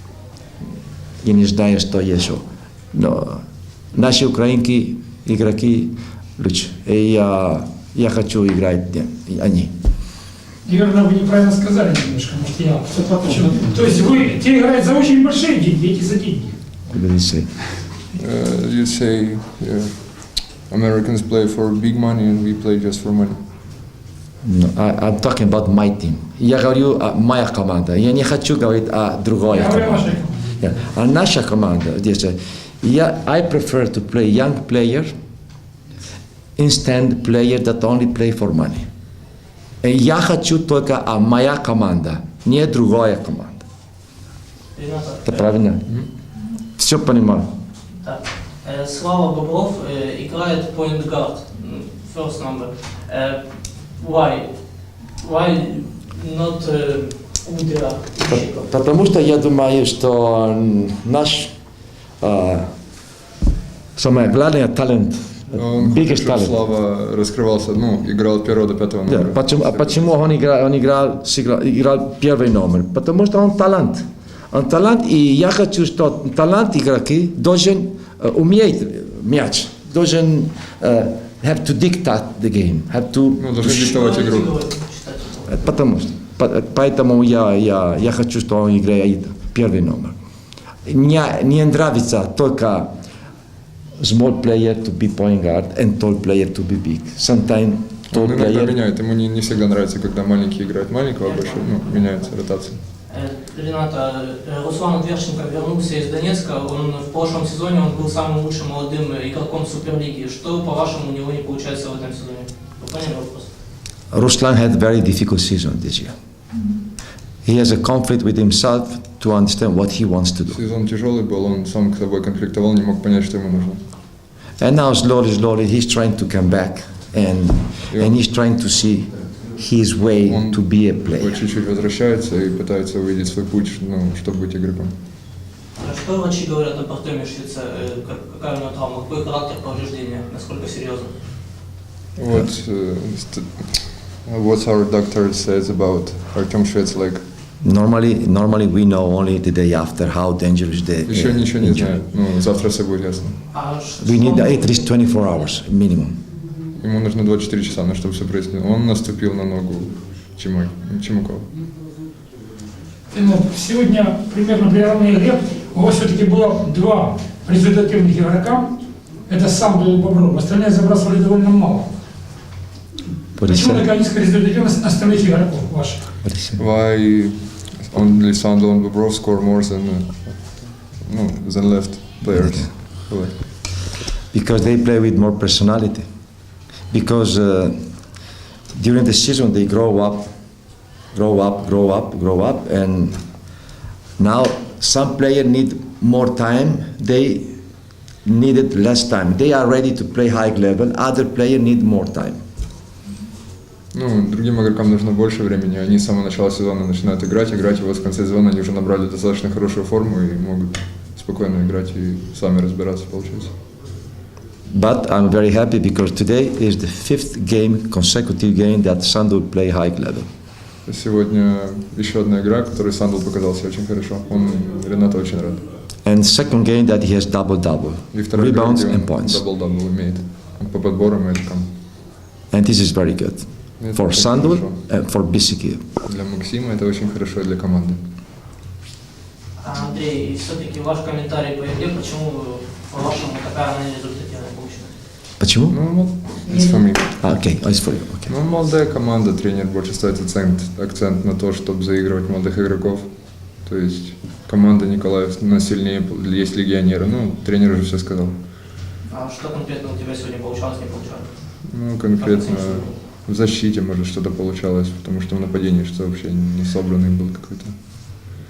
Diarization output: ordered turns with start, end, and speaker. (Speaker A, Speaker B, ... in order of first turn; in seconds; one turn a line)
Speaker A: 1.2-3.4
Speaker A: 3.9-9.7
Speaker B: 10.6-16.5
Speaker A: 16.9-17.5
Speaker C: 18.1-23.4
Speaker A: 24.4-30.1
Speaker B: 29.5-30.7
Speaker A: 30.6-35.1
Speaker A: 36.6-38.9
Speaker A: 39.8-43.6
Speaker D: 44.7-45.5
Speaker A: 45.2-45.8
Speaker A: 46.8-47.5
Speaker D: 48.0-58.7
Speaker A: 58.3-61.6
Speaker A: 62.2-62.7
Speaker A: 64.0-66.6
Speaker C: 65.5-70.2
Speaker A: 69.0-83.5
Speaker C: 83.4-84.5
Speaker D: 83.6-85.7
Speaker A: 85.5-90.1
Speaker A: 90.8-92.9
Speaker A: 94.0-98.8
Speaker C: 98.1-102.8
Speaker D: 101.2-102.3
Speaker D: 103.0-113.5
Speaker A: 114.1-116.1
Speaker A: 117.4-120.6
Speaker C: 120.5-123.8
Speaker A: 124.6-131.4
Speaker C: 127.9-128.2
Speaker C: 130.2-134.9
Speaker D: 135.8-141.1
Speaker C: 142.1-147.2
Speaker A: 147.6-151.9
Speaker C: 151.1-153.4
Speaker D: 153.5-155.0
Speaker A: 154.0-156.2
Speaker C: 156.8-161.5
Speaker B: 163.1-168.8
Speaker B: 169.3-171.9
Speaker B: 173.4-176.1
Speaker A: 173.4-173.8
Speaker A: 176.2-176.6
Speaker C: 176.6-183.4
Speaker A: 182.3-182.7
Speaker A: 184.3-186.1
Speaker A: 186.9-193.2
Speaker A: 194.2-197.5
Speaker A: 198.2-202.4
Speaker C: 203.9-213.5
Speaker A: 214.7-220.3
Speaker C: 220.8-225.6
Speaker A: 226.0-229.4
Speaker C: 228.1-231.7
Speaker A: 232.5-235.8
Speaker C: 233.8-234.8
Speaker C: 236.0-238.0
Speaker D: 239.6-245.0
Speaker A: 245.4-245.8
Speaker C: 245.7-258.4
Speaker D: 246.4-246.9
Speaker A: 247.2-248.3
Speaker D: 259.1-261.3
Speaker C: 261.7-267.7
Speaker D: 262.2-262.9